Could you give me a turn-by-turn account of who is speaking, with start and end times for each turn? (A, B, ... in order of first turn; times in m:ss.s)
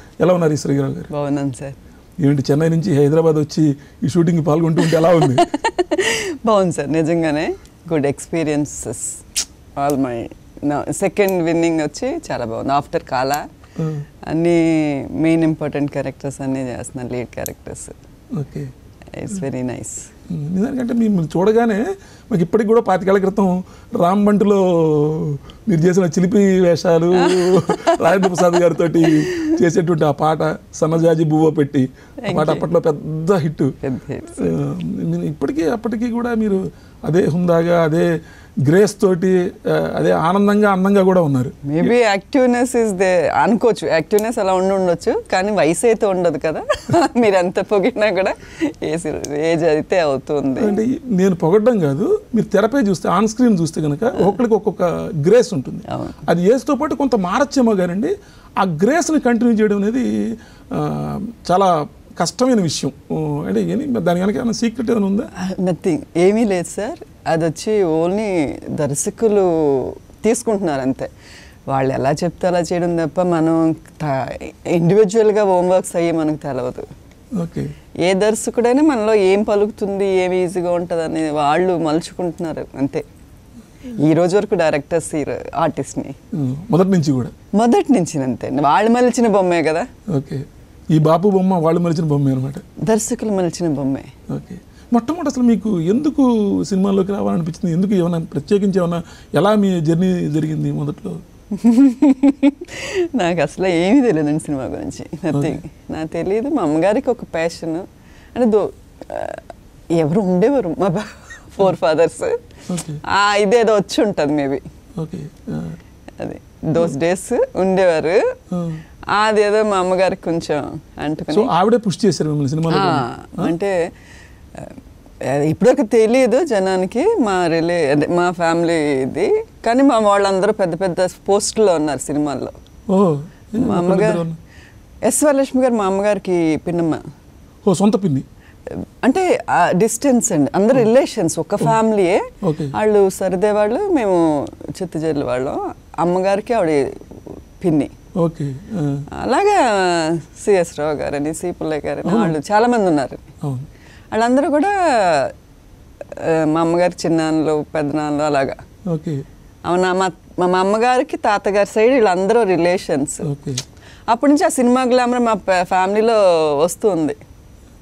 0:00.2-0:01.1 A
0:01.1-0:01.8 B
0:02.2-0:05.5 A
0:04.9-0:09.2 B
0:09.8-0:13.4 B
0:13.8-0:14.0 A
0:14.3-0:18.0 B
0:18.4-0:18.7 A
0:19.1-0:20.1 B
0:20.3-0:33.8 A
0:27.2-0:29.5 B
0:32.2-0:32.7 B
0:33.8-0:34.6 B
0:34.4-0:38.1 A
0:38.6-0:41.9 A
0:41.7-0:50.8 B
0:50.6-1:00.1 A
0:55.9-0:56.2 B
1:00.7-1:05.3 A
1:05.4-1:11.1 B
1:11.7-1:16.9 B
1:17.4-1:17.7 A
1:18.1-1:23.0 B
1:24.0-1:26.2 B
1:26.4-1:27.3 A
1:27.6-1:29.9 B
1:30.1-1:30.4 A
1:30.9-1:32.6 A
1:32.8-1:34.1 B
1:34.3-1:41.2 A
1:41.6-1:49.4 B
1:45.3-1:45.6 A
1:50.0-1:52.4 B
1:52.7-1:53.0 A
1:53.1-1:54.6 B
1:55.0-1:55.8 A
1:56.2-1:58.2 B
1:58.5-1:58.8 A
1:59.1-2:01.5 B
2:01.3-2:03.5 A
2:02.7-2:03.8 B
2:05.2-2:12.6 B
2:12.9-2:14.4 A
2:13.6-2:14.2 B
2:15.1-2:17.0 B
2:17.6-2:18.2 A
2:19.0-2:27.9 B
2:22.4-2:22.7 A
2:28.2-2:29.0 A
2:29.1-2:33.3 B
2:32.0-2:32.4 A
2:34.1-2:35.3 B
2:36.2-2:38.6 B
2:38.9-2:39.2 A
2:39.7-2:43.3 B
2:43.2-2:43.6 A
2:44.1-2:47.2 B